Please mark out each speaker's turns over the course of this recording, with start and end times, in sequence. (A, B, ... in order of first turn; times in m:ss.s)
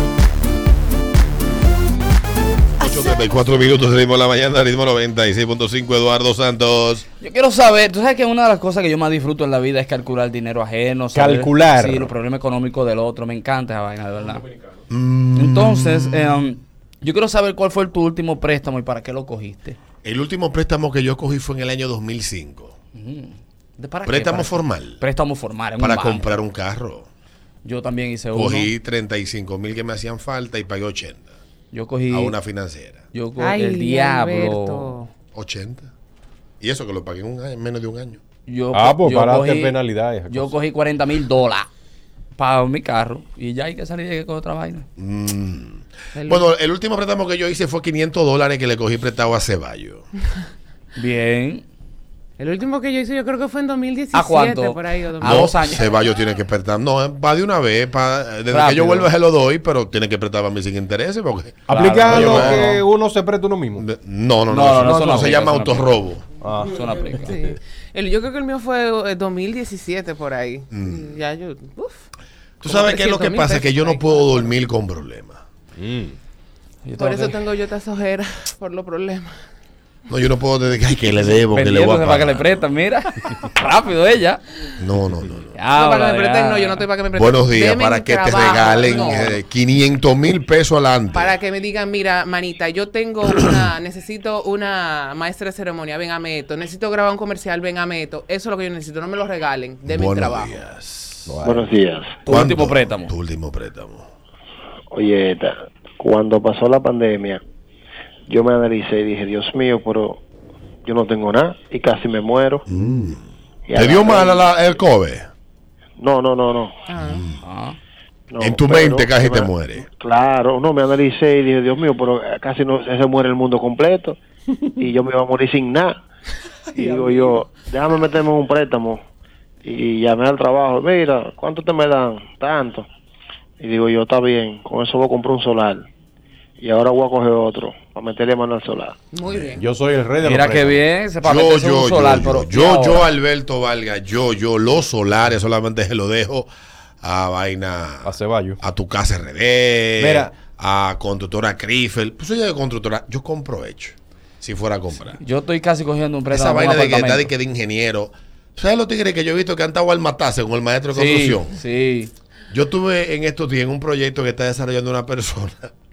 0:02.8-0:07.0 A
0:07.2-0:14.5 B
0:11.1-0:12.1 C
0:14.9-0:16.4 A
0:15.3-0:19.8 B
0:20.0-0:22.8 A
0:23.0-0:26.3 B
0:24.1-0:25.0 A
0:25.8-0:27.1 A
0:27.6-0:28.7 B
0:28.3-0:31.3 A
0:31.7-0:32.4 B
0:32.1-0:33.0 A
0:33.1-0:35.0 B
0:33.4-0:35.1 D
0:35.4-0:35.9 A
0:36.6-0:38.2 A
0:38.5-0:39.8 B
0:38.7-0:40.6 C
0:40.3-0:41.7 B
0:42.4-0:44.9 B
0:45.0-0:50.1 A
0:46.2-0:46.5 D
0:51.0-0:51.6 B
0:52.4-0:55.5 D
0:54.1-0:55.8 B
0:55.2-1:02.6 A
0:58.5-0:59.1 B
1:01.7-1:03.8 C
1:01.7-1:02.8 B
1:03.8-1:06.2 A
1:04.5-1:05.9 B
1:04.8-1:05.1 C
1:06.4-1:07.6 C
1:06.7-1:07.4 B
1:07.2-1:12.1 D
1:10.7-1:11.1 A
1:12.6-1:15.4 A
1:12.6-1:14.5 D
1:15.8-1:16.2 C
1:16.8-1:17.4 B
1:17.0-1:19.3 D
1:20.1-1:22.6 A
1:21.5-1:24.4 B
1:24.8-1:25.6 A
1:25.6-1:26.9 B
1:25.7-1:29.4 D
1:27.1-1:31.3 A
1:31.1-1:40.6 D
1:39.9-1:41.3 A
1:41.3-1:41.8 C
1:41.4-1:42.1 E
1:42.3-1:43.1 B
1:42.3-1:44.1 A
1:44.9-1:47.4 E
1:48.3-1:50.2 E
1:50.8-1:52.6 E
1:52.7-1:53.2 A
1:53.7-1:54.5 E
1:53.7-1:55.3 A
1:56.0-1:56.8 E
1:56.9-1:57.2 D
1:57.0-1:57.4 A
1:57.4-1:57.8 B
1:58.3-2:04.2 E
1:58.4-1:59.9 A
2:04.8-2:06.0 E
2:06.7-2:09.0 E
2:09.6-2:12.9 E
2:13.6-2:15.9 E
2:16.6-2:19.0 E
2:19.1-2:19.6 D
2:19.3-2:19.6 A
2:19.6-2:20.8 C
2:20.2-2:23.1 B
2:21.2-2:26.5 A
2:27.0-2:28.1 A
2:28.0-2:28.6 C
2:28.6-2:35.2 A
2:30.0-2:30.4 C
2:35.2-2:37.3 B
2:36.3-2:41.6 A
2:40.9-2:42.1 B
2:42.5-2:45.7 A